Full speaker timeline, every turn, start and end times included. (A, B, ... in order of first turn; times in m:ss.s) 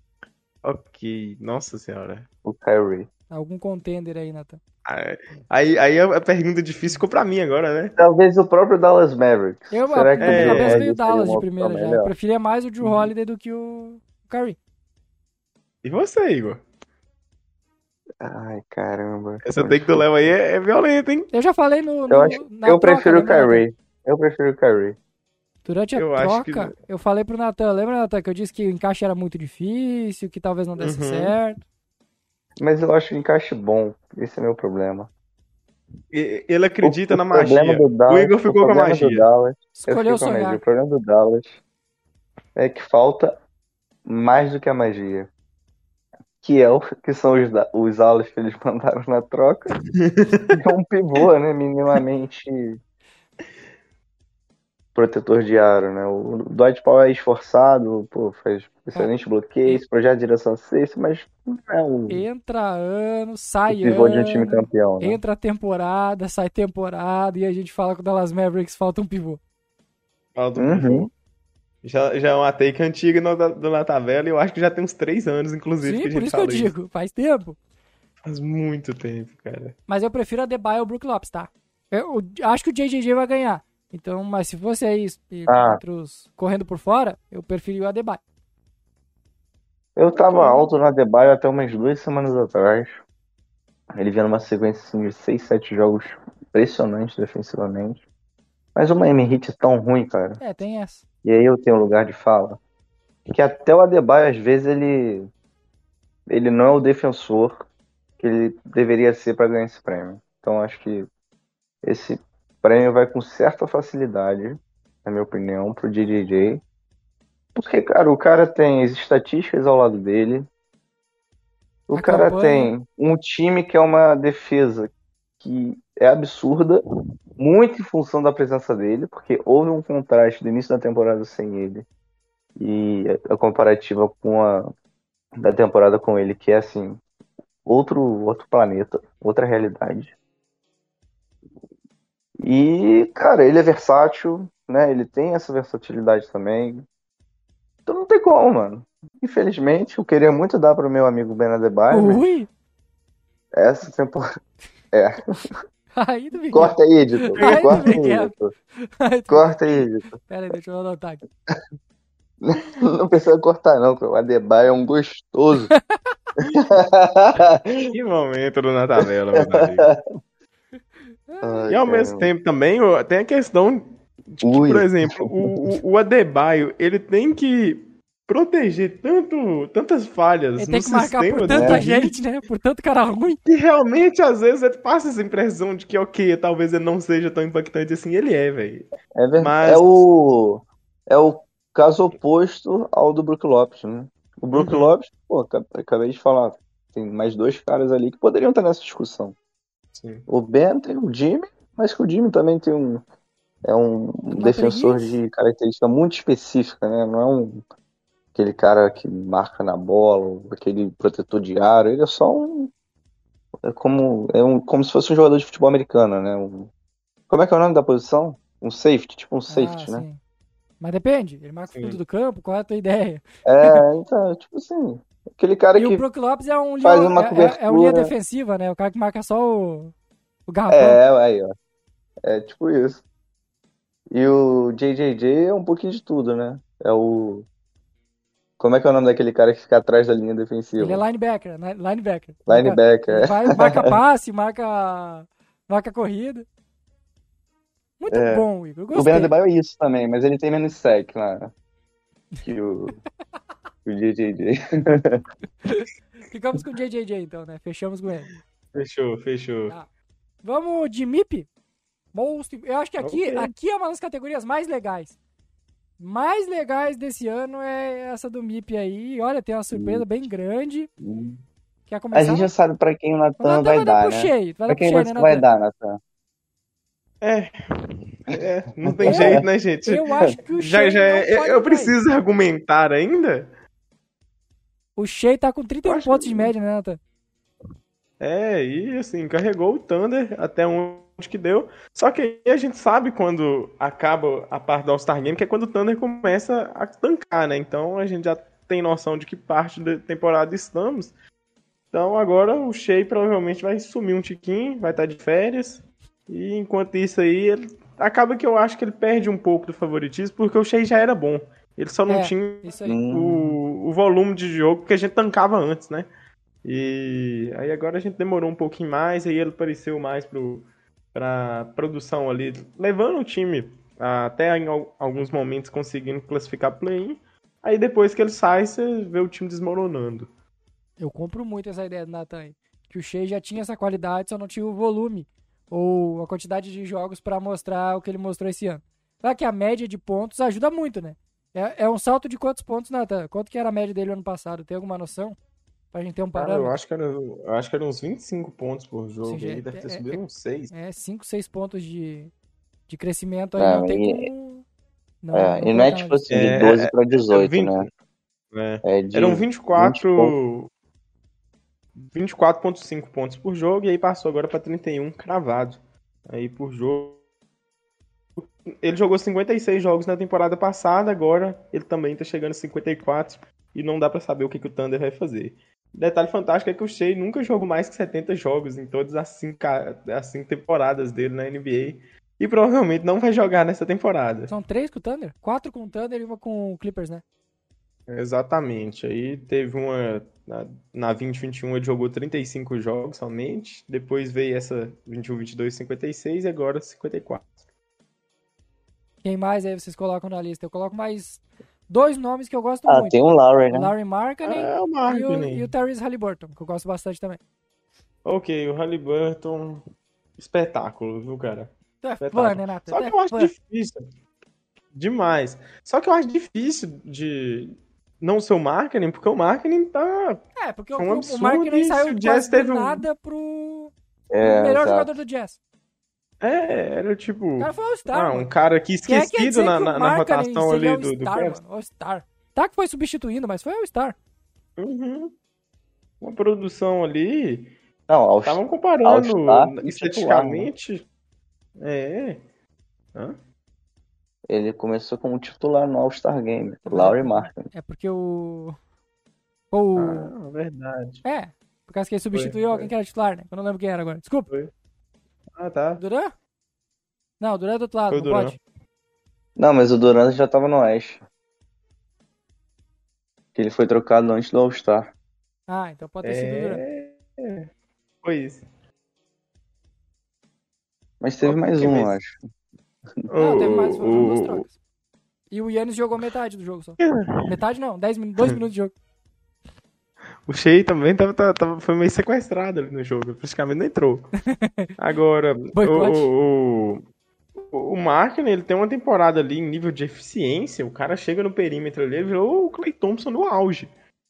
0:00.6-0:02.3 A
0:02.4-0:03.1 B
0:03.3-0:04.6 C
0:04.9-0:08.0 A
0:08.0-0:12.1 B
0:09.7-0:14.6 C
0:10.2-0:10.8 A
0:15.8-0:16.6 A
0:18.2-0:20.0 B
0:19.4-0:21.3 A
0:21.3-0:23.6 C
0:22.1-0:25.0 B
0:25.6-0:31.6 C
0:26.0-0:26.7 A
0:30.8-0:31.3 A
0:32.6-0:35.1 B
0:36.1-0:39.3 A
0:36.8-0:41.6 B
0:39.8-0:40.6 C
0:42.6-0:43.4 B
0:44.1-0:45.3 B
0:46.4-0:49.7 B
0:50.0-0:50.6 A
0:50.6-0:52.8 B
0:55.0-1:02.3 B
1:02.1-1:09.4 C
1:03.7-1:05.2 B
1:10.4-1:11.1 A
1:10.6-1:11.1 B
1:11.8-1:16.7 A
1:15.8-1:17.6 C
1:18.2-1:19.8 A
1:19.9-1:28.2 C
1:25.5-1:25.8 B
1:30.0-1:33.0 B
1:30.1-1:30.7 C
1:34.0-1:38.0 B
1:38.8-1:40.4 B
1:40.4-1:41.0 C
1:41.2-1:42.6 B
1:43.3-1:45.3 B
1:46.3-1:47.7 B
1:48.2-1:51.1 B
1:51.8-1:56.6 B
1:57.6-2:00.5 B
2:01.9-2:06.8 B
2:01.9-2:02.7 C
2:07.4-2:11.8 B
2:12.6-2:14.7 B
2:15.4-2:17.0 B
2:17.7-2:20.1 B
2:22.4-2:26.9 B
2:27.9-2:32.2 B
2:31.9-2:32.5 C
2:33.6-2:34.2 B
2:34.9-2:35.3 B
2:36.0-2:39.6 C
2:36.5-2:38.5 B
2:37.4-2:38.0 A
2:39.3-2:40.2 B
2:40.3-2:41.2 C
2:42.4-2:45.7 B
2:46.4-2:47.9 B
2:47.9-2:49.9 A
2:49.0-2:50.0 B
2:51.3-2:51.7 C
2:51.4-2:52.3 B
2:51.7-3:02.2 A
2:54.4-2:55.7 B
3:00.6-3:03.4 C
3:01.5-3:01.8 B
3:03.5-3:10.1 A
3:09.2-3:19.4 B
3:14.5-3:14.9 A
3:19.9-3:20.3 A
3:20.3-3:23.0 B
3:23.6-3:27.6 B
3:24.3-3:25.2 C
3:28.4-3:32.7 B
3:33.7-3:36.7 B
3:37.3-3:40.0 B
3:39.5-3:40.2 C
3:40.8-3:43.8 C
3:41.7-3:42.0 A
3:43.4-3:46.0 B
3:45.8-3:49.9 C
3:46.8-3:48.1 B
3:50.5-3:51.0 C
3:50.7-3:51.5 B
3:52.2-3:53.0 B
3:54.1-3:57.5 B
3:58.6-4:01.0 B
4:00.8-4:06.5 C
4:02.5-4:04.0 B
4:08.0-4:09.3 C
4:08.1-4:11.5 B
4:12.4-4:13.0 B
4:13.9-4:15.2 B
4:15.7-4:18.3 C
4:18.7-4:19.8 A
4:20.4-4:21.5 C
4:22.1-4:25.2 C
4:23.0-4:23.5 A
4:26.0-4:30.9 C
4:29.7-4:30.0 B
4:31.0-4:31.4 B
4:31.9-4:32.5 C
4:32.1-4:36.0 B
4:33.4-4:35.5 C
4:37.2-4:43.5 A
4:38.9-4:39.5 B
4:39.1-4:39.4 C
4:39.9-4:42.0 C
4:45.0-4:47.0 C
4:45.8-4:46.5 A
4:48.2-5:01.1 A
5:01.9-5:16.1 A
5:12.1-5:13.0 C
5:12.9-5:13.6 B
5:16.6-5:30.3 A
5:31.0-5:45.4 C
5:45.9-5:46.7 C
5:46.4-5:50.7 A
5:49.2-5:50.2 C
5:50.7-5:52.3 C
5:52.9-5:54.6 C
5:53.6-5:54.3 B
5:55.2-5:56.3 C
5:55.3-5:57.9 B
5:56.3-5:57.9 A
5:58.5-6:00.7 A
5:58.8-6:00.3 B
6:02.0-6:07.2 A
6:08.4-6:24.5 A
6:24.5-6:27.2 C
6:28.1-6:37.7 A
6:39.2-6:43.2 C
6:42.9-6:43.9 B
6:43.7-6:47.4 C
6:44.4-6:45.7 A
6:48.2-6:49.8 A
6:50.4-6:54.1 A
6:52.0-6:53.5 C
6:54.9-7:00.4 A
7:00.6-7:05.6 C
7:01.0-7:03.0 A
7:04.3-7:05.2 B
7:06.4-7:11.6 A
7:07.6-7:08.5 C
7:09.1-7:14.2 C
7:14.8-7:15.3 A
7:16.2-7:17.8 A
7:18.1-7:20.7 B
7:18.4-7:21.0 A
7:21.8-7:22.4 A
7:24.5-7:27.7 B
7:26.9-7:28.8 C
7:29.7-7:30.3 C
7:30.0-7:31.2 A
7:31.2-7:34.5 C
7:32.3-7:32.9 A
7:35.6-7:36.0 A
7:36.0-7:36.3 C
7:37.4-7:38.6 C
7:38.1-7:38.6 A
7:39.6-7:41.2 B
7:43.6-7:45.1 B
7:45.7-7:46.8 C
7:46.2-7:47.7 A
7:48.2-7:48.6 A
7:51.2-7:52.4 B
7:51.4-7:52.2 A
7:53.3-7:54.7 A
7:53.4-7:54.7 C
7:55.5-7:58.9 C
7:57.0-7:57.5 A
8:00.5-8:04.4 A
8:04.4-8:04.9 C
8:05.0-8:07.0 A
8:05.7-8:06.3 C
8:07.7-8:13.9 A